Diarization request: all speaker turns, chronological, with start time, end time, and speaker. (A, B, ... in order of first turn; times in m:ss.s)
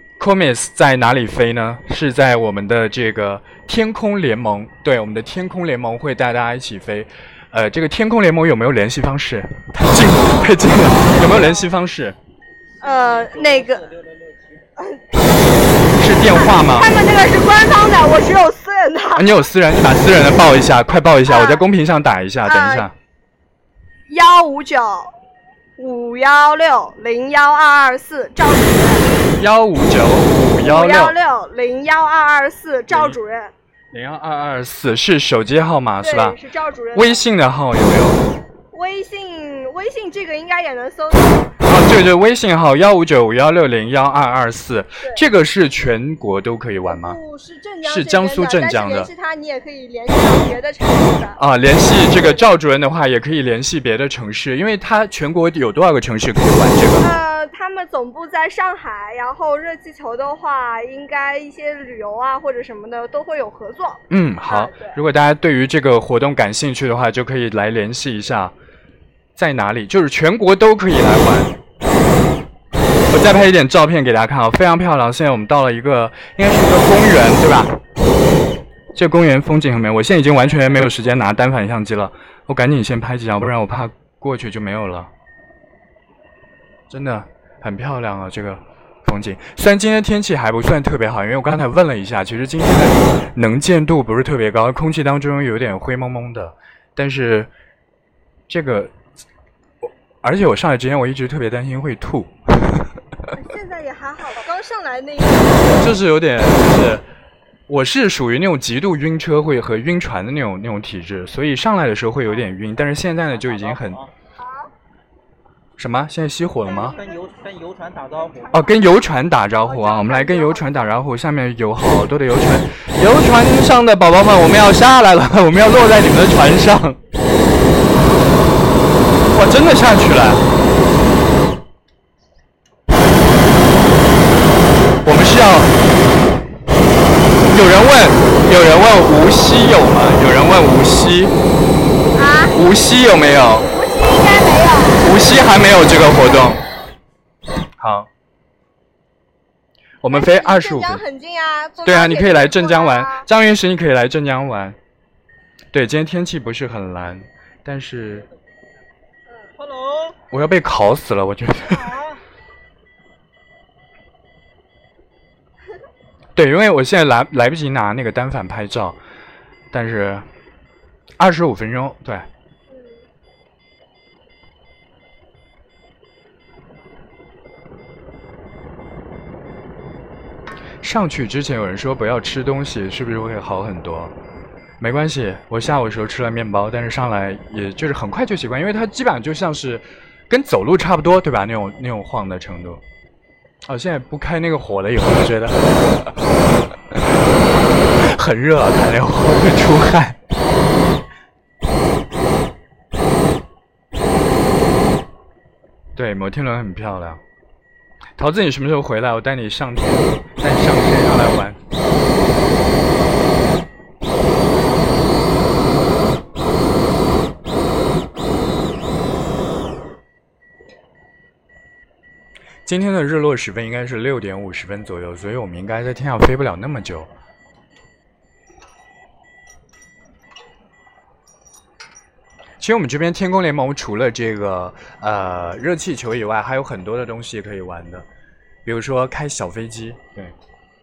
0:00.2-0:12.2 A
0:11.2-0:11.6 B
0:12.8-0:14.7 C
0:12.8-0:13.8 B
0:14.8-0:19.4 B
0:16.0-0:16.9 A
0:19.1-0:22.9 A
0:21.2-0:21.6 B
0:22.4-0:22.9 B
0:24.1-0:25.1 B
0:25.8-0:29.2 B
0:29.4-0:31.2 A
0:30.6-0:33.5 B
0:32.9-0:33.2 A
0:33.9-0:36.4 A
0:36.0-0:37.2 B
0:36.9-0:38.2 A
0:38.7-0:41.5 B
0:41.6-0:47.2 A
0:46.9-0:52.5 B
0:47.8-0:49.1 A
0:51.4-0:57.1 A
0:57.0-1:05.0 B
1:04.1-1:08.5 A
1:09.4-1:11.6 A
1:13.1-1:17.8 A
1:18.9-1:25.1 A
1:20.5-1:20.9 C
1:26.9-1:37.5 A
1:38.5-1:38.9 A
1:39.8-1:42.9 A
1:43.3-1:45.8 B
1:45.8-1:47.0 A
1:47.7-1:54.0 A
1:53.3-1:54.1 C
1:54.4-1:54.7 B
1:55.8-1:57.0 A
1:56.6-1:57.2 B
1:56.7-1:58.7 C
1:58.4-1:58.8 B
1:58.5-2:07.0 A
1:59.6-2:00.9 B
2:09.3-2:10.4 A
2:15.0-2:15.7 A
2:17.5-2:21.3 A
2:22.2-2:22.6 B
2:22.5-2:23.7 A
2:23.7-2:25.0 B
2:25.0-2:26.6 A
2:27.8-2:28.1 A
2:30.0-2:31.0 A
2:30.1-2:33.3 B
2:31.8-2:34.8 A
2:35.7-2:38.3 A
2:38.1-2:38.3 C
2:39.6-2:40.2 C
2:40.3-2:42.0 A
2:41.8-2:42.1 C
2:46.4-2:49.0 A
2:49.7-2:50.2 A
2:51.2-2:52.3 A
2:52.7-2:53.0 B
3:00.8-3:04.1 A
3:04.8-3:12.8 A
3:13.6-3:16.1 A
3:16.9-3:17.2 A
3:17.9-3:20.2 A
3:25.9-3:27.2 A
3:28.2-3:31.6 A
3:42.6-3:47.1 A
3:52.6-3:58.0 A
3:58.6-4:00.3 A